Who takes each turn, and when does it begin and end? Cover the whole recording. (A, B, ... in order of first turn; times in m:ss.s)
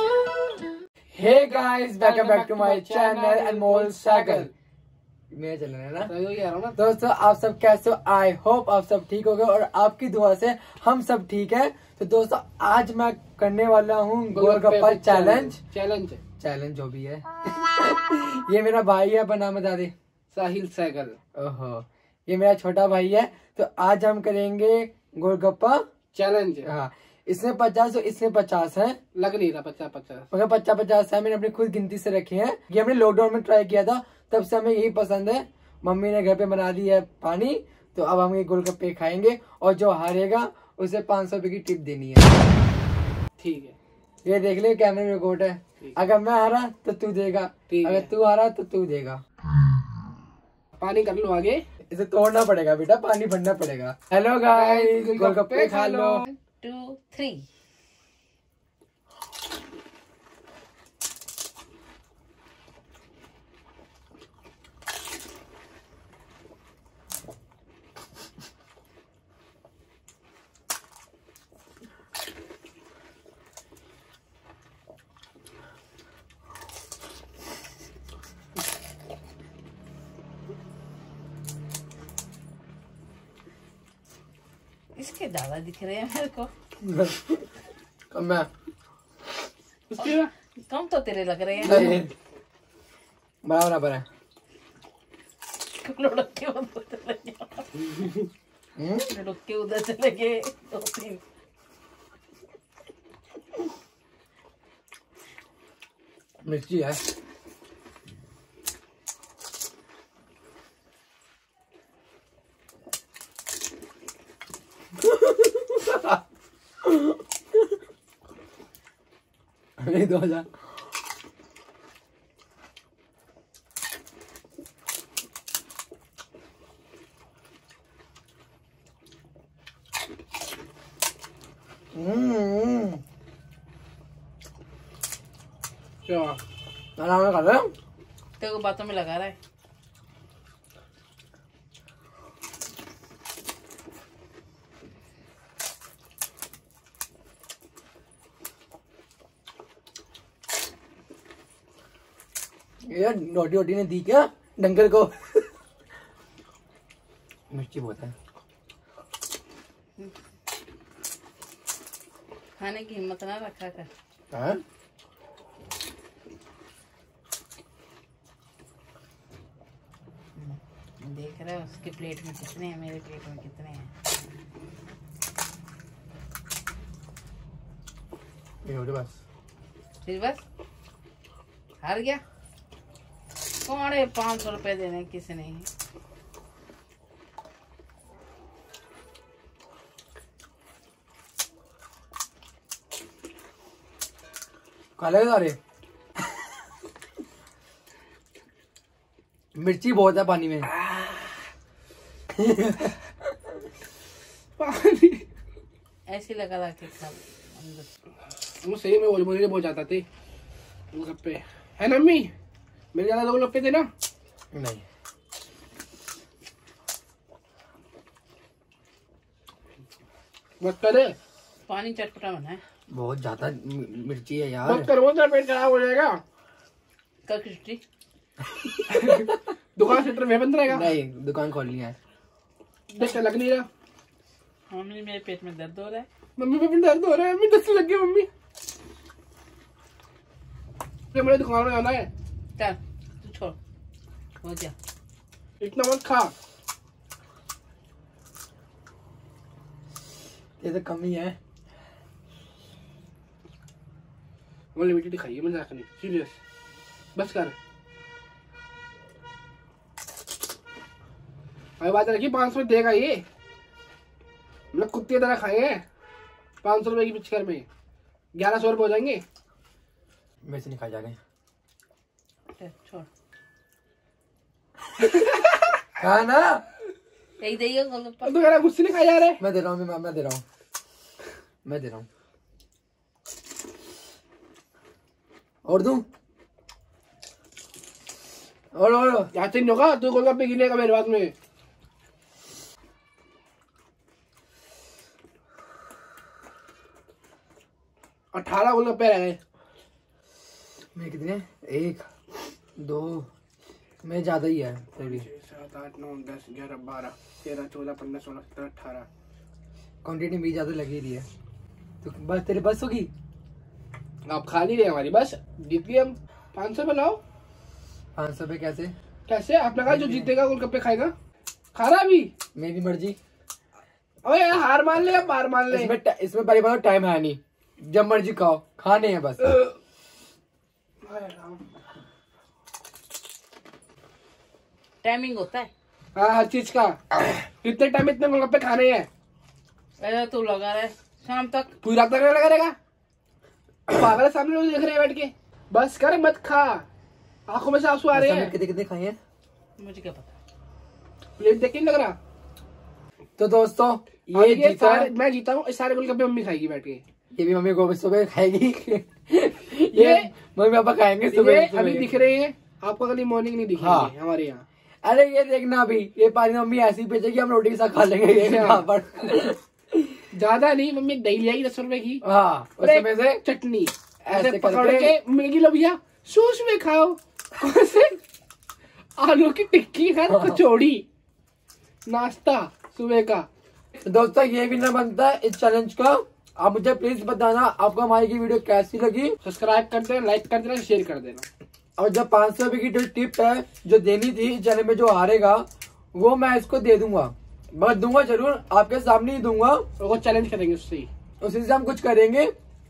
0:01.1-0:04.5 A
0:02.0-0:04.5 B
0:05.3-0:06.1 A
0:06.1-0:06.8 B
0:06.8-0:15.6 A
0:14.3-0:16.2 B
0:16.4-0:19.9 A
0:20.3-0:21.2 B
0:21.3-0:25.8 A
0:26.1-0:26.7 B
0:26.6-0:29.0 A
0:29.1-0:30.3 B
0:30.3-0:42.4 A
0:43.4-0:43.7 B
0:44.2-0:49.2 A
0:47.7-0:48.1 B
0:50.8-0:51.6 B
0:51.9-0:56.2 A
0:54.5-0:56.3 B
0:56.4-0:57.4 C
1:25.0-1:26.5 C
1:26.8-1:27.4 A
1:28.1-1:28.5 A
1:29.9-1:30.3 B
1:30.0-1:32.0 C
1:31.6-1:32.1 A
1:33.4-1:34.0 A
1:35.6-1:38.1 C
1:38.8-1:39.1 A
1:39.0-1:41.2 C
1:46.4-1:47.0 A
1:55.0-1:56.2 A
1:56.8-1:57.2 A
1:59.8-2:00.5 A
2:11.9-2:13.0 A
2:16.0-2:16.4 B
2:17.0-2:17.7 A
2:18.4-2:19.4 C
2:32.9-2:35.4 A
2:37.5-2:38.1 A
2:42.6-2:43.9 C
2:44.3-2:44.6 A
2:50.4-2:53.9 C
2:58.6-2:59.1 A
3:00.0-3:00.4 C
3:01.8-3:02.2 C
3:03.4-3:05.7 C
3:15.0-3:15.6 A
3:19.5-3:20.7 A
3:22.3-3:23.0 A
3:24.6-3:25.2 B
3:26.1-3:27.9 C
3:28.6-3:30.0 B
3:30.9-3:32.3 B
3:32.9-3:33.9 B
3:34.5-3:34.8 A
3:40.6-3:41.1 B
3:41.6-3:42.6 C
3:42.9-3:44.9 A
3:44.6-3:46.2 B
3:47.2-3:47.8 C
3:48.6-3:49.3 A
3:48.9-3:50.9 B
3:50.7-3:51.9 A
3:52.9-3:53.7 B
3:54.7-3:56.1 C
3:56.4-3:58.3 B
4:01.1-4:02.1 B
4:02.6-4:03.6 C
4:04.4-4:04.7 C
4:05.6-4:06.3 B
4:10.6-4:11.4 A
4:14.7-4:16.3 B
4:17.1-4:17.5 B
4:21.8-4:23.2 B
4:24.7-4:25.8 B
4:26.6-4:27.6 B
4:28.3-4:29.2 B
4:30.4-4:31.2 A
4:32.5-4:33.1 C
4:35.0-4:35.7 B
4:36.0-4:36.6 A
4:37.4-4:38.4 C
4:38.2-4:39.4 B
4:39.4-4:40.4 A
4:41.6-4:42.0 A
4:45.6-4:46.0 A
4:48.7-4:49.3 A
4:49.3-4:51.3 B
4:58.3-4:59.4 B
5:00.9-5:02.0 A
5:02.8-5:03.3 A
5:04.0-5:05.2 A
5:05.0-5:09.0 B
5:10.0-5:11.3 A
5:12.0-5:13.1 A
5:14.3-5:17.2 B
5:18.2-5:18.9 A
5:19.3-5:21.1 B
5:19.9-5:20.3 A
5:21.7-5:22.3 B
5:22.5-5:23.2 A
5:24.2-5:25.9 B
5:25.7-5:29.6 A
5:31.0-5:31.6 B
5:35.0-5:35.7 C
5:36.1-5:39.1 B
5:40.0-5:41.7 C
5:41.8-5:42.7 B
5:43.9-5:46.8 B
5:47.5-5:48.5 B
5:48.1-5:49.2 A
5:49.8-5:50.3 C
5:51.4-5:52.2 B
5:53.4-5:55.1 A
5:54.3-5:57.0 B
5:57.3-6:02.1 A
5:59.9-6:00.3 B
6:01.3-6:04.6 B
6:03.8-6:04.1 A
6:05.0-6:10.1 A
6:08.4-6:08.8 B
6:10.3-6:12.2 B
6:12.2-6:13.4 A
6:12.8-6:18.2 B
6:14.2-6:15.1 A
6:19.2-6:21.0 B
6:20.3-6:20.6 A
6:22.0-6:23.5 B
6:24.0-6:29.4 A
6:29.4-6:31.4 B
6:32.0-6:39.8 A
6:40.0-6:41.1 B
6:41.4-6:42.5 A